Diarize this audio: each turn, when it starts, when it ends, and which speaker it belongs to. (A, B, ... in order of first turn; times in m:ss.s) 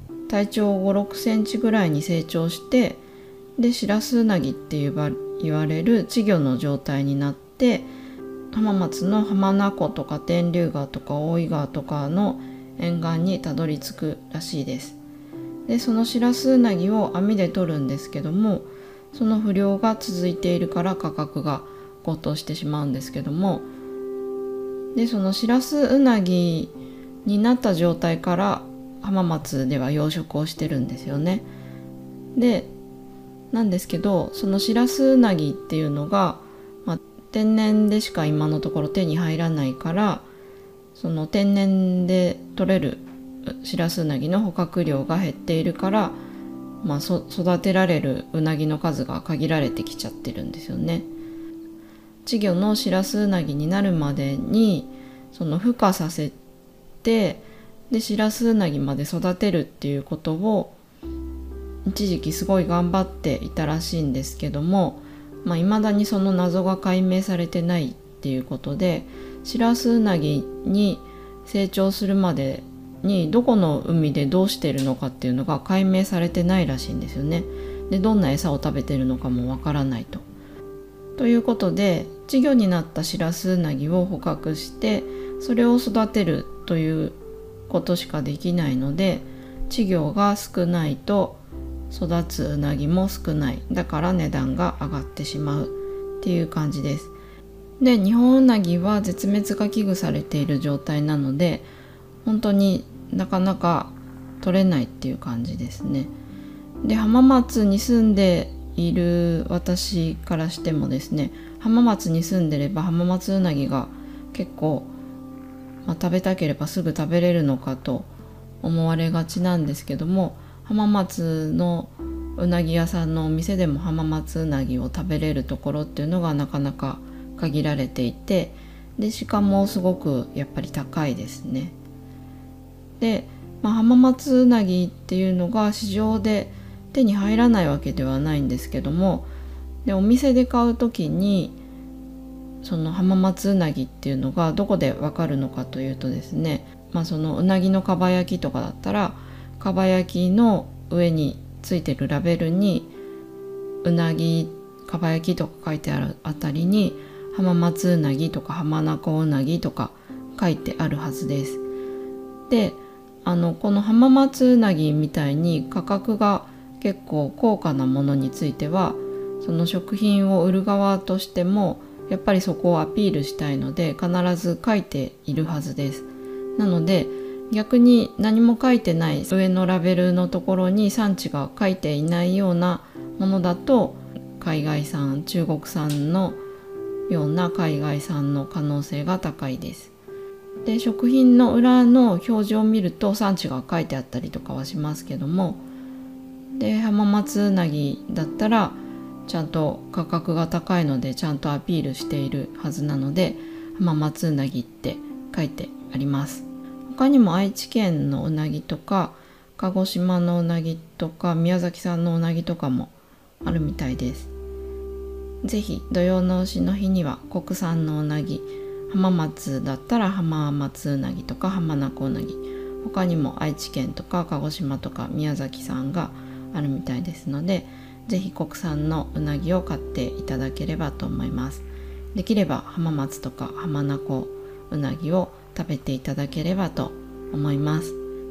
0:00.3-0:03.0 A
0:03.6-0:07.9 A
0:08.5-0:15.0 A
0:15.7-0:23.6 A
0:24.9-0:26.7 A
0:27.2-0:31.5 A
0:32.3-0:32.7 A
0:33.5-0:40.3 A
0:40.9-0:46.2 A
0:46.8-0:51.1 A
0:52.2-0:56.4 A
0:57.0-1:00.8 A
1:01.8-1:20.2 A
1:21.2-1:27.2 A
1:27.7-1:31.4 A
1:31.9-1:37.1 A
1:37.8-1:41.7 A
1:42.2-1:46.1 A
1:46.8-1:54.9 A
1:55.8-1:58.1 A
1:58.6-2:11.7 A
2:13.0-2:19.3 A
2:19.8-2:21.6 A
2:22.6-2:32.9 A
2:33.8-2:41.6 A
2:42.5-3:06.4 A
3:07.1-3:09.9 A
3:10.6-3:15.6 A
3:16.5-3:34.3 A
3:35.4-3:58.0 A